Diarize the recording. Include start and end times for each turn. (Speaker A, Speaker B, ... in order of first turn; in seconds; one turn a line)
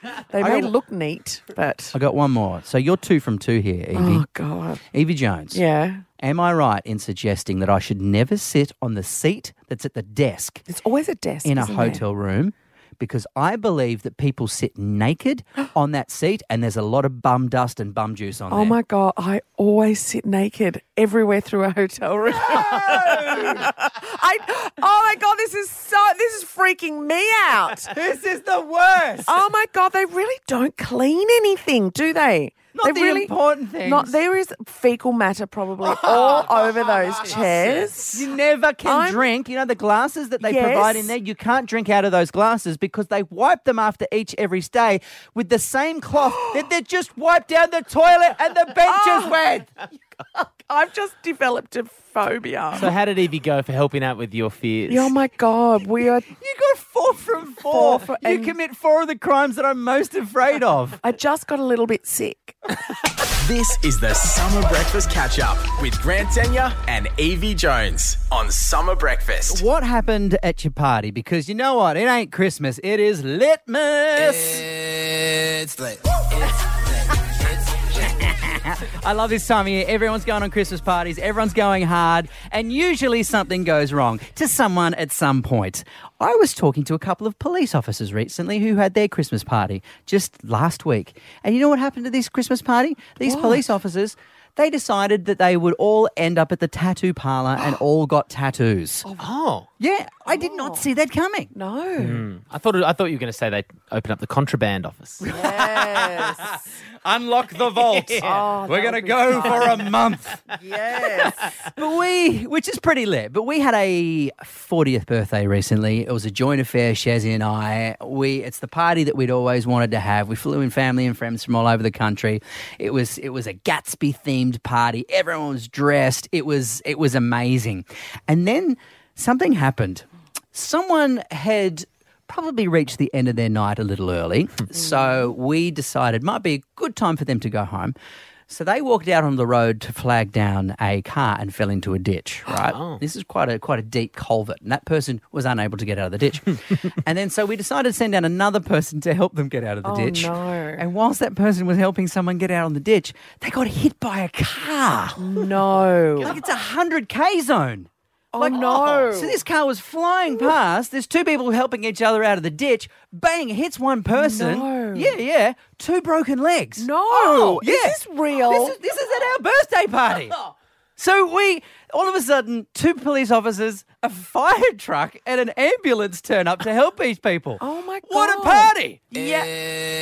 Speaker A: 0.3-2.0
Speaker B: 0.4-0.7
Speaker B: 1.9-4.3
Speaker A: 3.9-4.8
Speaker B: 4.9-5.6
Speaker A: 5.5-6.0
Speaker B: 6.2-10.6
Speaker A: 10.7-12.1
Speaker B: 11.4-18.8
Speaker A: 18.5-27.9
Speaker B: 22.3-23.7
Speaker B: 27.9-29.4
Speaker A: 29.2-38.3
Speaker B: 32.7-34.2
Speaker B: 35.8-36.4
Speaker C: 36.0-38.0
Speaker B: 38.1-49.7
Speaker A: 38.8-39.3
Speaker A: 40.4-41.1
Speaker A: 48.8-49.5
Speaker A: 50.7-52.9
Speaker C: 52.7-55.1
Speaker A: 54.9-56.3
Speaker B: 56.3-61.0
Speaker A: 57.6-58.6
Speaker A: 61.0-62.6
Speaker D: 63.4-69.6
Speaker B: 69.5-74.7
Speaker B: 77.9-99.1
Speaker A: 93.2-93.7
Speaker C: 99.2-99.7
Speaker B: 99.8-101.5
Speaker A: 100.3-100.9
Speaker A: 101.5-102.3
Speaker C: 102.0-105.2
Speaker B: 105.2-106.5
Speaker A: 105.3-106.6
Speaker B: 107.0-138.0
Speaker C: 107.9-108.3
Speaker A: 108.2-109.9
Speaker C: 109.3-109.6
Speaker A: 110.6-111.4
Speaker B: 138.5-155.3
Speaker C: 142.5-143.0
Speaker A: 149.8-150.8
Speaker A: 155.2-156.4
Speaker B: 156.2-170.4
Speaker A: 158.3-159.4
Speaker A: 164.1-165.2
Speaker A: 166.8-168.8
Speaker B: 171.0-179.1
Speaker A: 177.6-179.5